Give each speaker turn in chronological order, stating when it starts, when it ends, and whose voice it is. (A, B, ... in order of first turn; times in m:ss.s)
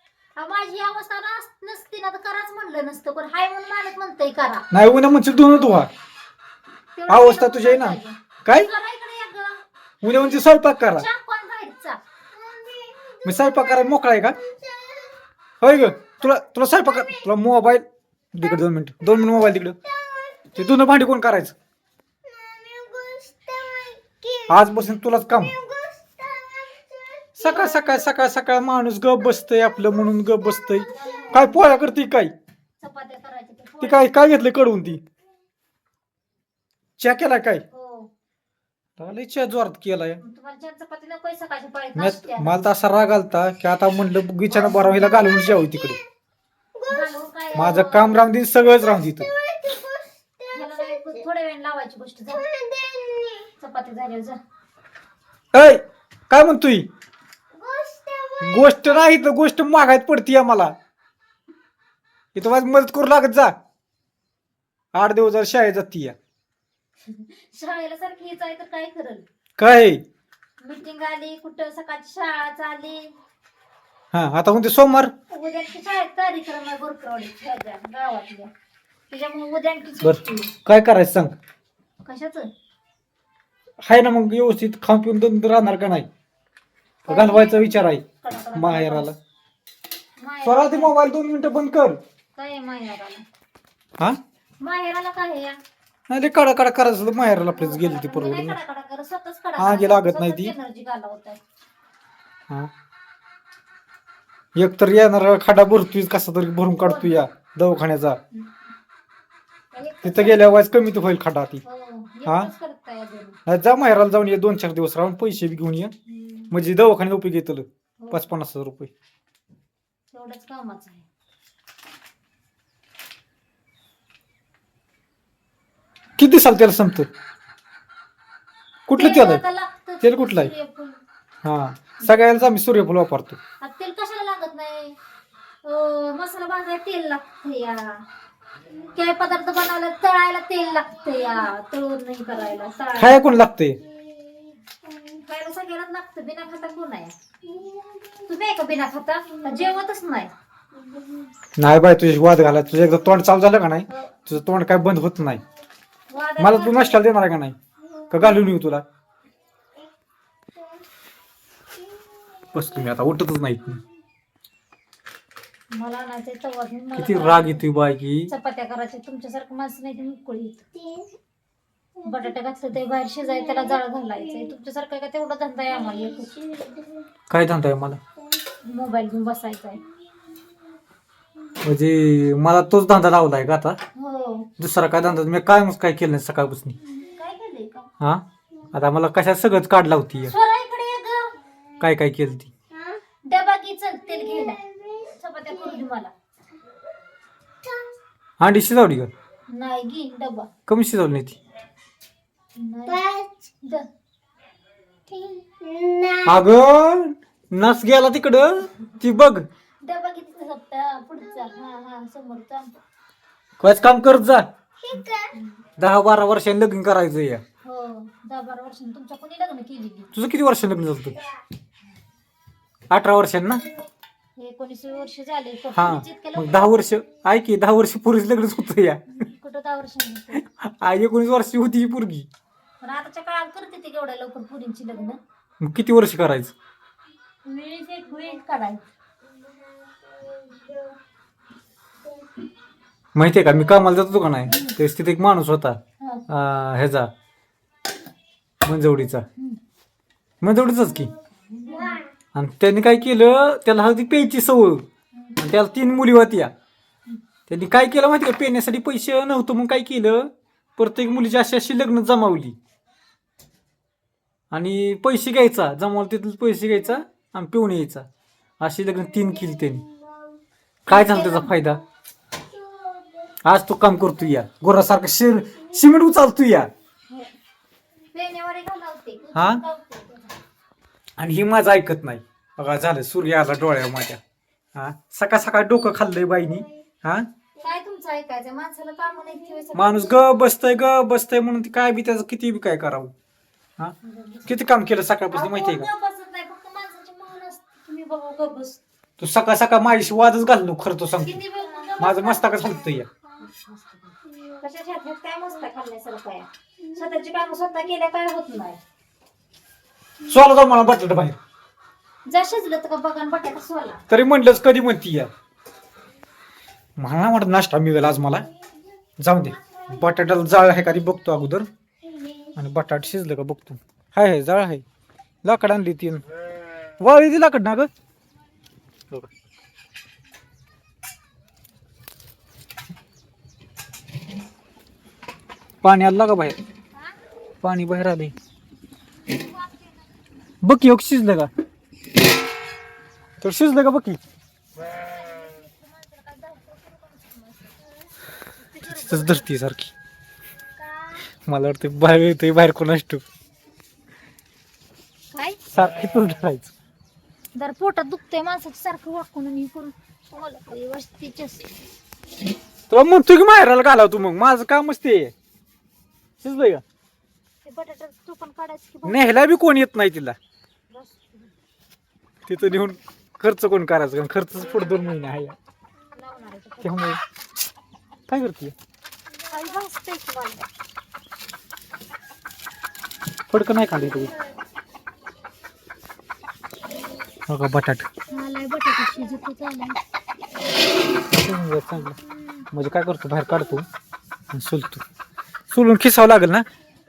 0:00.4-0:04.7 A
0:04.7-0:05.9 B
0:07.0-0:12.0 A
0:07.1-0:08.7 B
0:10.0-0:11.1 B
0:12.3-0:13.7 C
0:13.2-0:14.4 B
0:14.4-0:15.1 C
0:15.6-0:19.8 B
0:19.8-0:20.6 C
0:20.5-0:21.5 B
0:22.2-0:24.6 C
0:24.5-0:25.5 B
0:25.4-0:28.1 C
0:27.4-0:32.3 B
0:30.8-0:31.2 C
0:30.9-0:31.9 A
0:32.8-0:34.1 A
0:33.8-0:35.0 B
0:37.0-0:37.6 B
0:37.7-0:38.1 A
0:39.0-0:40.2 B
0:40.2-0:42.6 A
0:42.0-0:46.0 B
0:44.6-0:45.2 A
0:45.2-0:46.0 C
0:46.7-0:47.2 C
0:46.9-0:48.2 A
0:47.5-0:49.3 B
0:48.7-0:51.2 C
0:50.5-0:52.4 A
0:52.3-0:53.5 C
0:53.6-0:54.4 A
0:55.5-0:56.9 B
0:57.5-0:59.1 C
0:58.4-1:00.7 B
1:02.3-1:03.5 B
1:04.9-1:06.2 B
1:07.0-1:09.2 A
1:09.6-1:10.0 B
1:10.6-1:13.1 A
1:14.1-1:15.1 B
1:15.3-1:18.5 A
1:19.1-1:20.5 A
1:20.0-1:21.3 B
1:22.0-1:22.5 A
1:23.8-1:26.1 B
1:27.0-1:29.1 A
1:27.1-1:28.0 B
1:28.5-1:29.2 B
1:30.2-1:31.0 A
1:30.4-1:32.0 B
1:32.4-1:33.2 A
1:34.6-1:35.6 A
1:36.1-1:38.6 B
1:37.4-1:41.4 A
1:39.6-1:40.5 B
1:44.6-1:48.2 B
1:46.8-1:47.2 A
1:49.7-1:50.6 A
1:50.0-1:51.6 B
1:51.6-1:53.4 A
1:53.4-1:55.9 B
1:56.1-1:56.5 A
1:56.5-1:58.9 B
1:58.0-1:58.3 A
2:00.1-2:01.0 A
2:06.2-2:07.1 B
2:08.9-2:09.4 B
2:08.9-2:11.0 A
2:10.0-2:10.5 B
2:11.4-2:13.4 B
2:12.0-2:12.4 A
2:13.6-2:15.0 A
2:15.6-2:18.0 A
2:18.9-2:23.2 A
2:23.0-2:23.8 B
2:24.0-2:25.0 C
2:25.2-2:27.2 A
2:27.4-2:28.3 C
2:28.3-2:30.3 A
2:30.7-2:31.3 C
2:31.6-2:35.4 B
2:33.9-2:34.1 A
2:36.1-2:37.0 A
2:36.4-2:37.6 B
2:38.1-2:38.8 B
2:40.6-2:40.8 C
2:42.5-2:43.8 B
2:45.7-2:47.6 A
2:46.9-2:48.3 B
2:48.3-2:50.6 A
2:50.8-2:51.1 C
2:52.0-2:56.4 A
2:56.2-2:57.0 C
2:57.3-2:58.0 B
2:58.6-2:59.8 A
3:01.6-3:03.8 B
3:04.0-3:04.5 A
3:04.6-3:06.8 B
3:06.8-3:07.9 A
3:08.0-3:10.3 B
3:10.2-3:11.4 A
3:11.8-3:12.5 B
3:12.7-3:13.0 C
3:13.2-3:16.1 A
3:14.3-3:15.8 C
3:17.6-3:17.9 C
3:18.4-3:19.1 B
3:19.5-3:20.5 A
3:20.7-3:21.4 B
3:22.6-3:23.0 A
3:22.9-3:23.4 C
3:25.1-3:26.4 C
3:26.2-3:29.4 B
3:29.8-3:32.7 A
3:33.6-3:34.4 B
3:34.8-3:35.3 C
3:34.9-3:35.6 A
3:35.8-3:37.4 B
3:37.6-3:40.1 A
3:40.1-3:41.2 B
3:42.9-3:43.6 B
3:44.4-3:47.0 A
3:45.7-3:49.0 B
3:49.1-3:50.4 A
3:50.4-3:52.3 B
3:52.8-3:55.2 A
3:55.6-3:56.5 B
3:57.4-3:58.8 A
3:59.3-4:01.0 C
4:03.1-4:07.1 B
4:04.5-4:04.8 A
4:06.0-4:06.2 A
4:08.6-4:09.2 B
4:10.4-4:11.1 B
4:11.5-4:12.0 A
4:11.7-4:12.0 C
4:12.3-4:14.8 B
4:15.1-4:15.4 A
4:15.4-4:16.5 B
4:17.5-4:22.6 B
4:24.5-4:28.0 B
4:28.6-4:29.8 B
4:29.5-4:30.4 C
4:30.8-4:31.8 B
4:30.9-4:31.8 A
4:32.5-4:33.4 C
4:33.4-4:36.7 B
4:37.1-4:37.3 A
4:38.1-4:40.3 A
4:39.3-4:39.6 B
4:41.2-4:44.2 B
4:44.7-4:47.2 B
4:47.6-4:50.3 A
4:49.7-4:53.1 B
4:54.0-4:54.5 A
4:54.4-4:55.9 B
4:55.3-4:58.8 A
4:59.2-5:01.4 B
5:01.2-5:08.8 A
5:02.0-5:03.1 B
5:04.3-5:04.6 C
5:10.2-5:11.4 B
5:12.3-5:14.0 A
5:14.1-5:15.3 B
5:17.0-5:18.4 B
5:19.2-5:21.7 B
5:22.1-5:22.5 C
5:22.6-5:24.8 B
5:25.4-5:26.2 B
5:27.0-5:27.9 B
5:35.8-5:36.6 B
5:37.6-5:38.3 B
5:39.2-5:40.1 A
5:40.6-5:41.5 B
5:43.4-5:44.2 B
5:44.8-5:47.8 A
5:48.6-5:49.5 A
5:48.9-5:49.9 B
5:51.4-5:53.2 B
5:55.3-5:55.6 A
5:55.7-5:56.7 B
5:57.5-6:01.7 A
6:02.9-6:05.3 B
6:06.4-6:06.8 B
6:07.6-6:09.4 A
6:09.0-6:10.4 B
6:10.9-6:11.5 A
6:12.5-6:15.6 B
6:12.6-6:12.9 A
6:16.1-6:17.2 A
6:16.8-6:17.2 B
6:18.3-6:18.7 B
6:19.5-6:20.7 A
6:23.5-6:24.3 B
6:27.5-6:28.1 B
6:28.3-6:30.0 A
6:31.3-6:32.2 B
6:32.1-6:32.6 A
6:32.7-6:33.8 B
6:34.5-6:35.0 B
6:35.7-6:36.6 B